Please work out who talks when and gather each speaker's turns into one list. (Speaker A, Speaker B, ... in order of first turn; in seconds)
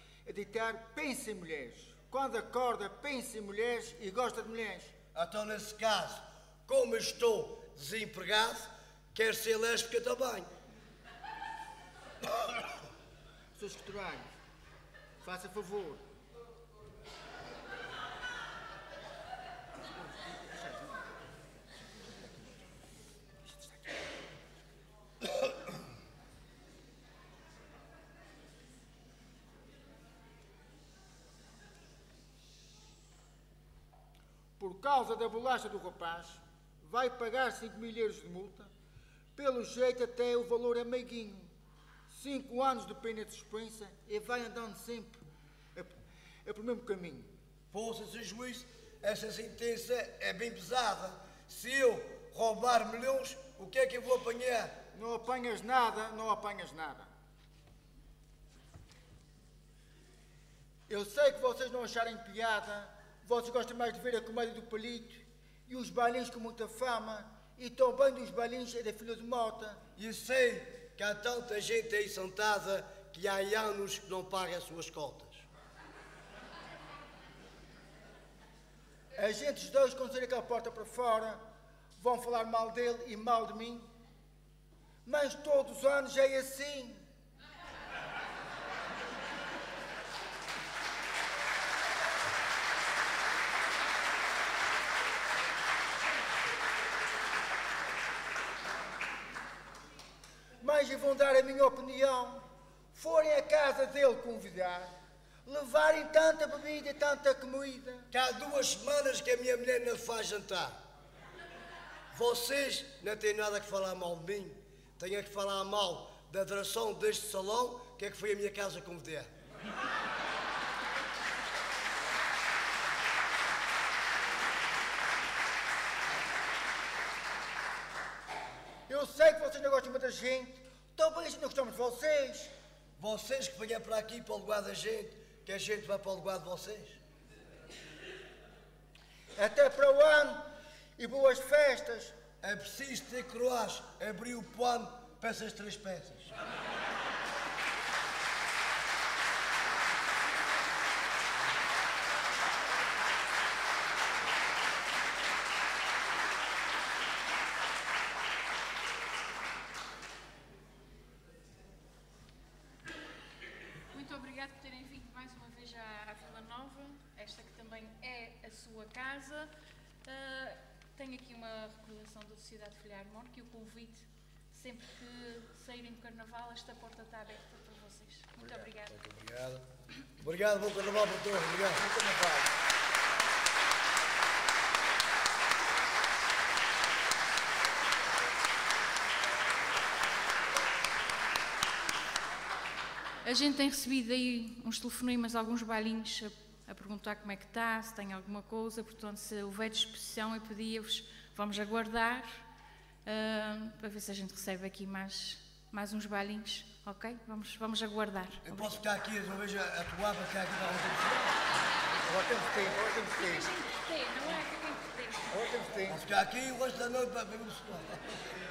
Speaker A: 0.2-4.9, 13.6-14.3, 15.2-16.0, 20.0-20.9, 34.6-38.7, 39.4-41.5, 42.1-45.2, 46.5-47.3, 54.9-57.1, 60.9-69.8, 79.2-81.4, 82.0-83.9, 85.0-87.0, 100.6-102.4, 102.9-104.9, 105.5-108.1, 128.9-132.5, 139.4-140.5, 141.0-142.2, 181.8-182.5, 212.1-213.5, 215.3-216.0
Speaker B: 5.2-10.5, 47.7-54.8, 70.0-75.5, 108.1-110.8, 112.1-119.3, 133.0-137.0, 142.4-146.3, 178.9-179.6, 180.2-181.8, 208.4-211.4, 215.9-218.2
Speaker C: 163.9-169.5, 170.0-179.0, 193.2-202.4, 203.1-208.7, 212.8-215.6